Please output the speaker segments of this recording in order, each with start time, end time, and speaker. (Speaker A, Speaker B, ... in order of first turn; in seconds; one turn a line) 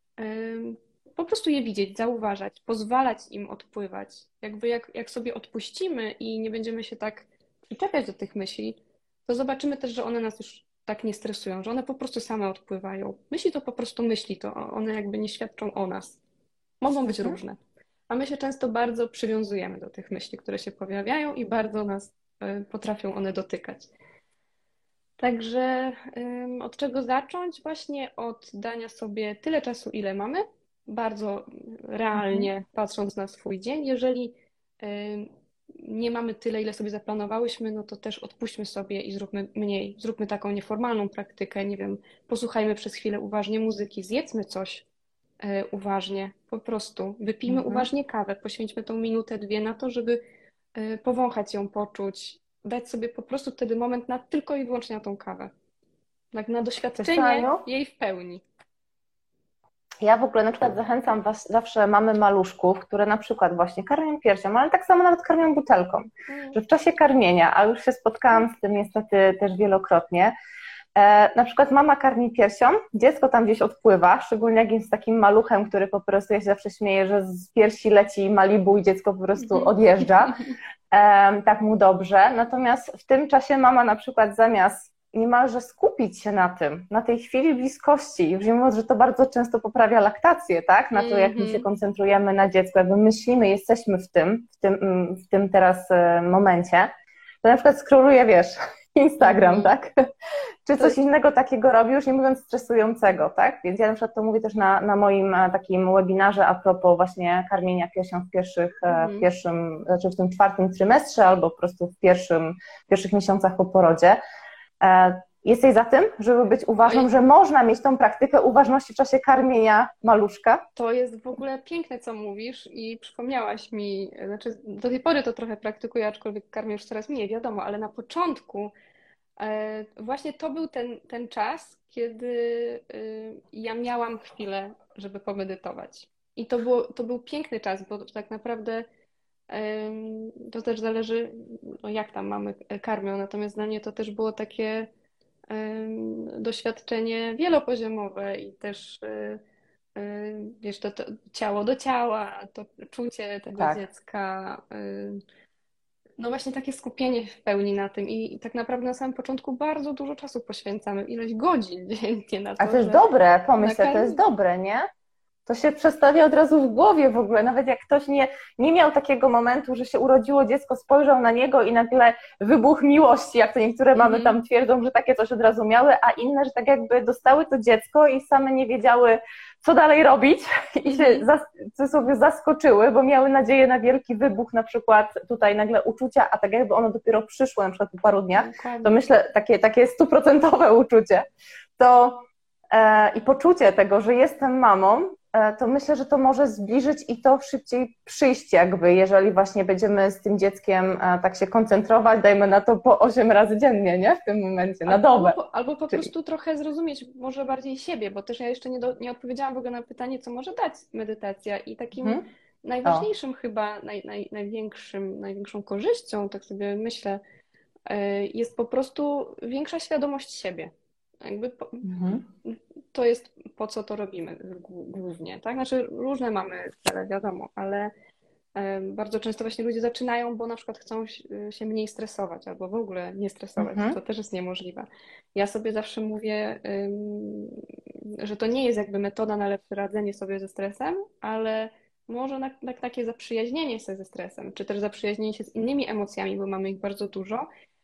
Speaker A: 0.2-16.2
Speaker A: 16.8-17.6
Speaker A: 18.1-23.9
Speaker A: 25.2-44.8
Speaker B: 32.1-32.5
Speaker A: 45.4-50.2
Speaker B: 47.5-47.9
Speaker A: 50.8-55.5
Speaker A: 56.3-58.4
Speaker B: 57.0-57.6
Speaker B: 60.0-70.3
Speaker A: 66.3-66.6
Speaker B: 71.0-80.4
Speaker A: 79.4-79.7
Speaker B: 80.9-96.9
Speaker A: 90.9-91.7
Speaker B: 97.4-99.9
Speaker A: 99.2-99.7
Speaker B: 100.7-114.2
Speaker A: 108.9-109.3
Speaker B: 114.8-120.6
Speaker A: 120.8-128.7
Speaker A: 129.4-138.8
Speaker A: 139.5-144.9
Speaker A: 145.5-149.4
Speaker A: 149.9-155.2
Speaker B: 153.6-153.8
Speaker A: 156.2-164.2
Speaker B: 162.6-164.9
Speaker B: 165.5-191.2
Speaker A: 174.0-174.4
Speaker A: 180.8-181.2
Speaker A: 188.3-189.0
Speaker B: 191.8-205.4
Speaker A: 204.8-217.2
Speaker B: 212.0-212.2
Speaker A: 217.9-221.9
Speaker B: 221.8-222.2
Speaker A: 222.4-227.9
Speaker A: 228.6-237.6
Speaker B: 233.6-234.0
Speaker A: 238.2-247.5